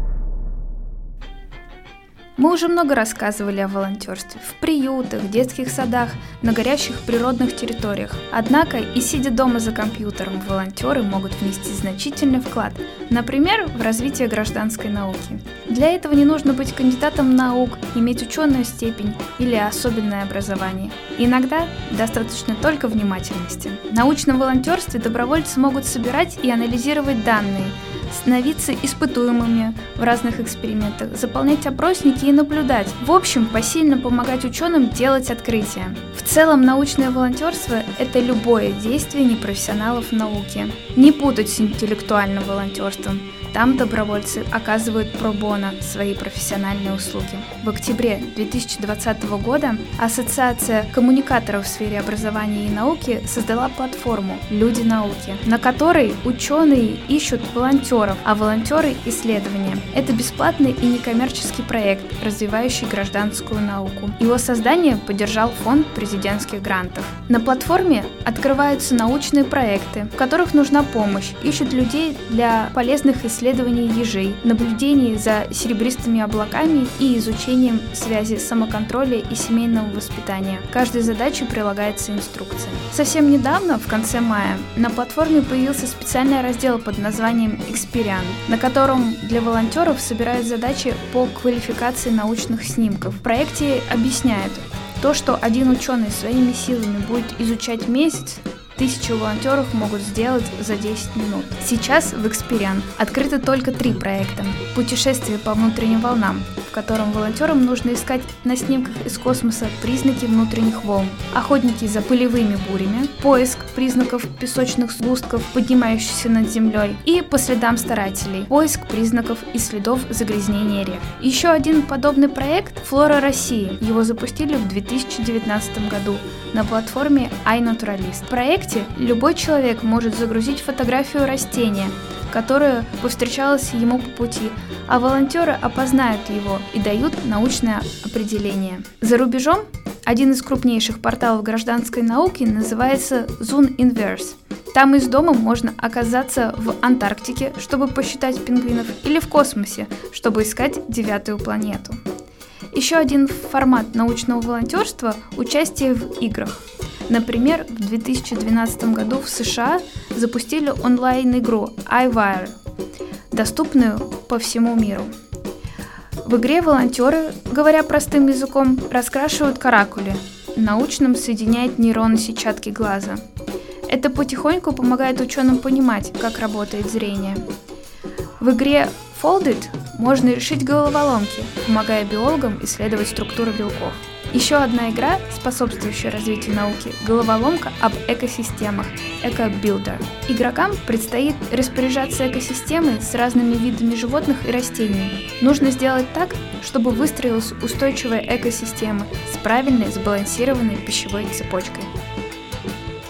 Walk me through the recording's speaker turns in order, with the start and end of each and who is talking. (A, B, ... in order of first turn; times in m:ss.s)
0:02.4-2:32.0 A
2:32.7-2:42.6 A
2:43.3-2:45.1 A
2:46.2-2:53.2 A
2:53.8-2:57.4 A
2:58.4-3:21.9 A